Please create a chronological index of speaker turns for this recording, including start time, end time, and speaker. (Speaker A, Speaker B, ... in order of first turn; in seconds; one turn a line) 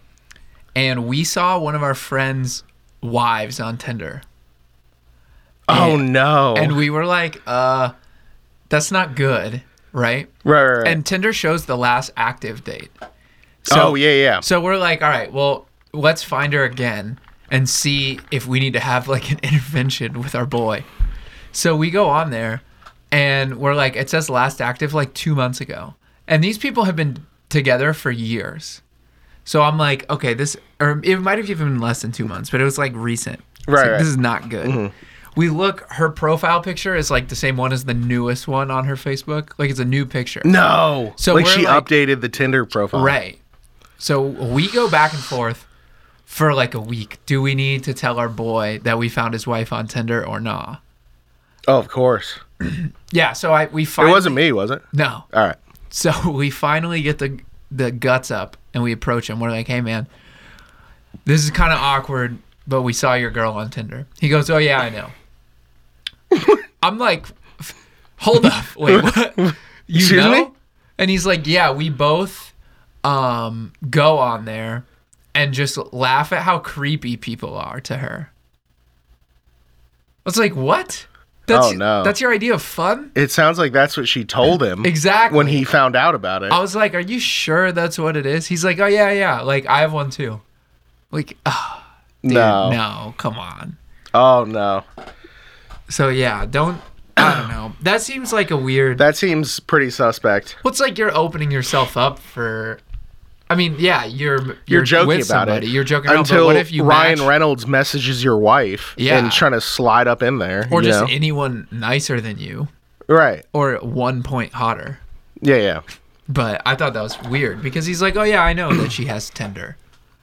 Speaker A: 0.7-4.2
Speaker B: 5.7-6.8
Speaker A: 5.7-7.9
Speaker A: 8.7-10.3
Speaker B: 10.4-11.0
Speaker A: 10.8-12.9
Speaker A: 13.6-20.9
Speaker B: 13.7-14.4
Speaker A: 21.5-28.8
Speaker A: 29.4-34.8
Speaker B: 33.7-34.1
Speaker B: 34.6-34.9
Speaker A: 35.4-40.6
Speaker B: 40.4-43.1
Speaker A: 41.2-41.9
Speaker A: 42.9-43.4
Speaker A: 44.0-45.6
Speaker A: 46.3-50.8
Speaker B: 51.7-52.4
Speaker A: 52.6-54.4
Speaker B: 54.0-55.6
Speaker A: 54.9-55.3
Speaker A: 55.9-60.1
Speaker A: 61.2-65.1
Speaker A: 66.8-72.5
Speaker B: 68.9-70.5
Speaker A: 73.0-78.3
Speaker A: 80.2-83.1
Speaker B: 81.5-82.2
Speaker B: 83.1-86.6
Speaker A: 84.8-85.7
Speaker A: 86.5-90.4
Speaker A: 91.1-93.8
Speaker B: 92.2-92.8
Speaker B: 94.1-94.8
Speaker A: 95.9-99.0
Speaker B: 97.2-97.5
Speaker B: 99.0-100.6
Speaker A: 100.6-102.8
Speaker A: 103.5-107.3
Speaker B: 104.7-111.1
Speaker A: 109.0-109.4
Speaker A: 110.7-112.7
Speaker B: 113.1-113.4
Speaker A: 113.5-115.0
Speaker B: 115.4-115.8
Speaker A: 116.3-119.8